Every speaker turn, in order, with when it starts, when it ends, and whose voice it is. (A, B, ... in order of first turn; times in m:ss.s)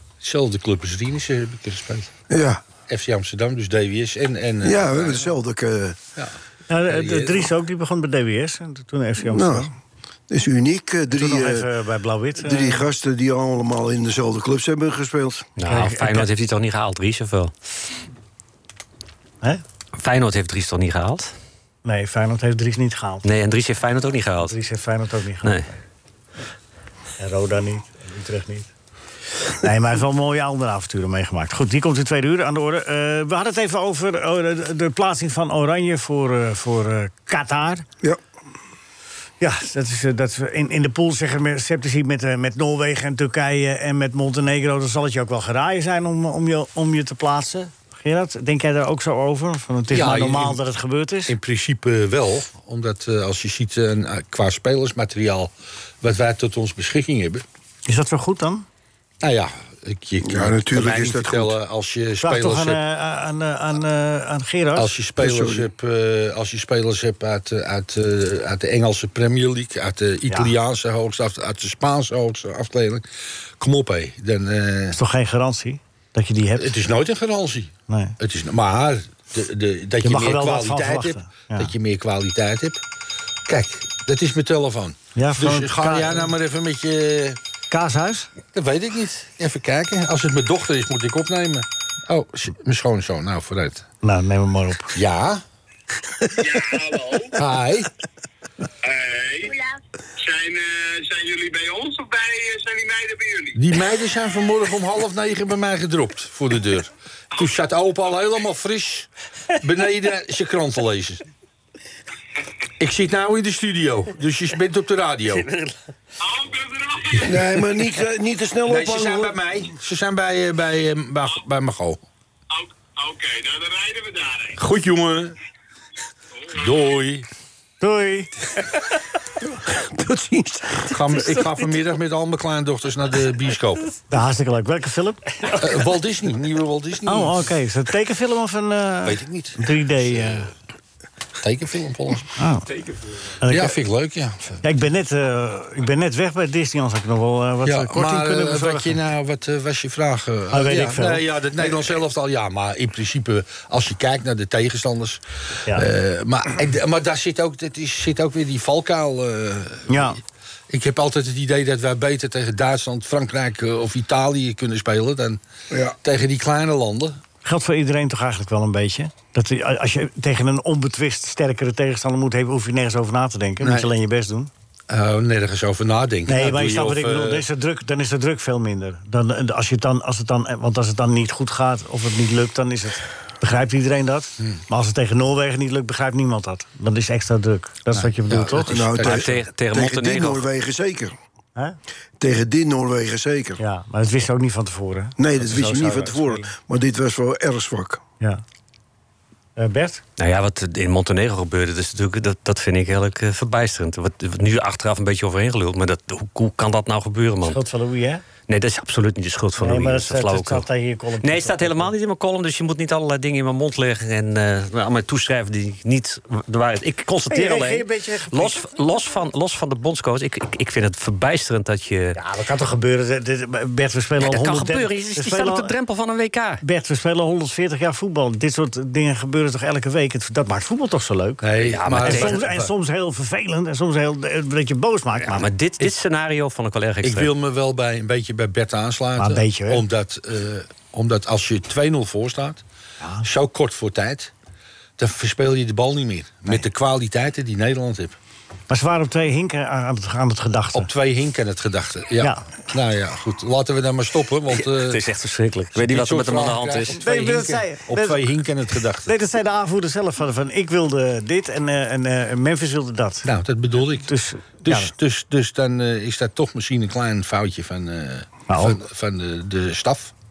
0:00.2-0:02.1 A
0:02.3-0:02.6 B
0:02.8-0:05.3 A
0:04.6-0:06.0 B
0:06.7-0:09.7 C
0:06.8-0:07.5 A
0:09.2-0:09.7 B
0:10.3-0:11.7 B
0:11.1-0:12.9 C
0:12.4-0:15.5 B
0:15.6-0:17.5 D
0:15.6-0:16.3 C
0:20.0-0:21.3 D
0:21.8-0:23.2 C
0:23.2-0:24.5 D
0:24.4-0:25.6 C
0:27.2-0:28.7 C
0:29.5-0:37.8 C
0:39.4-0:51.3 C
0:49.9-0:50.6 A
0:51.3-0:57.4 A
0:57.8-0:58.6 C
0:59.2-1:02.8 A
1:00.2-1:01.6 B
1:02.2-1:04.9 C
1:04.7-1:13.0 A
1:05.2-1:05.7 B
1:13.6-1:15.0 A
1:14.9-1:16.8 C
1:16.6-1:22.8 A
1:17.9-1:18.2 C
1:20.0-1:21.7 C
1:23.4-1:27.4 A
1:25.2-1:26.3 C
1:27.7-1:28.3 C
1:28.5-1:33.8 A
1:34.0-1:35.0 C
1:34.9-1:35.4 A
1:36.4-1:37.3 E
1:37.3-1:37.9 A
1:38.8-1:43.6 E
1:43.6-1:49.1 A
1:49.6-1:51.2 A
1:52.8-1:55.4 A
1:55.3-1:55.8 D
1:56.2-1:57.4 E
1:57.2-1:59.4 B
1:58.6-2:02.0 A
2:02.5-2:04.6 E
2:04.6-2:05.4 A
2:06.4-2:06.9 E
2:06.5-2:07.3 A
2:07.8-2:08.5 C
2:09.4-2:11.2 B
2:10.9-2:13.9 A
2:14.1-2:15.3 C
2:15.5-2:17.5 A
2:17.0-2:20.5 C
2:19.0-2:19.6 A
2:21.4-2:22.3 A
2:22.4-2:22.7 C
2:23.4-2:23.7 C
2:23.5-2:24.6 A
2:24.6-2:29.0 C
2:27.6-2:40.1 A
2:30.5-2:31.2 C
2:39.9-2:40.2 C
2:40.7-2:45.4 A
2:45.7-2:46.0 B
2:46.0-2:47.2 A
2:47.4-2:54.5 C
2:53.6-2:53.9 A
2:54.9-2:57.4 A
2:56.2-3:08.8 C
3:07.9-3:09.4 A
3:08.7-3:11.1 B
3:09.0-3:10.4 D
3:12.2-3:13.6 B
3:13.6-3:16.5 C
3:15.2-3:18.0 B
3:19.6-3:20.0 C
3:20.2-3:27.6 D
3:27.4-3:28.2 C
3:28.5-3:30.6 D
3:29.6-3:31.9 C
3:31.2-3:42.2 D
3:37.3-3:38.7 C
3:42.1-3:45.7 C
3:44.2-3:46.6 D
3:46.6-3:51.4 C
3:51.4-3:52.7 A
3:51.6-3:52.4 D
3:52.0-3:55.9 C
3:55.2-3:57.3 D
3:57.0-4:02.6 A
3:59.2-3:59.8 C
4:03.0-4:03.3 C
4:03.2-4:04.3 A
4:05.0-4:08.2 A
4:08.7-4:10.9 C
4:10.7-4:15.0 A
4:14.5-4:17.6 D
4:15.8-4:19.1 A
4:16.9-4:18.2 C
4:19.0-4:23.3 C
4:23.2-4:24.1 A
4:24.0-4:24.9 C
4:24.6-4:30.1 A
4:28.5-4:28.8 C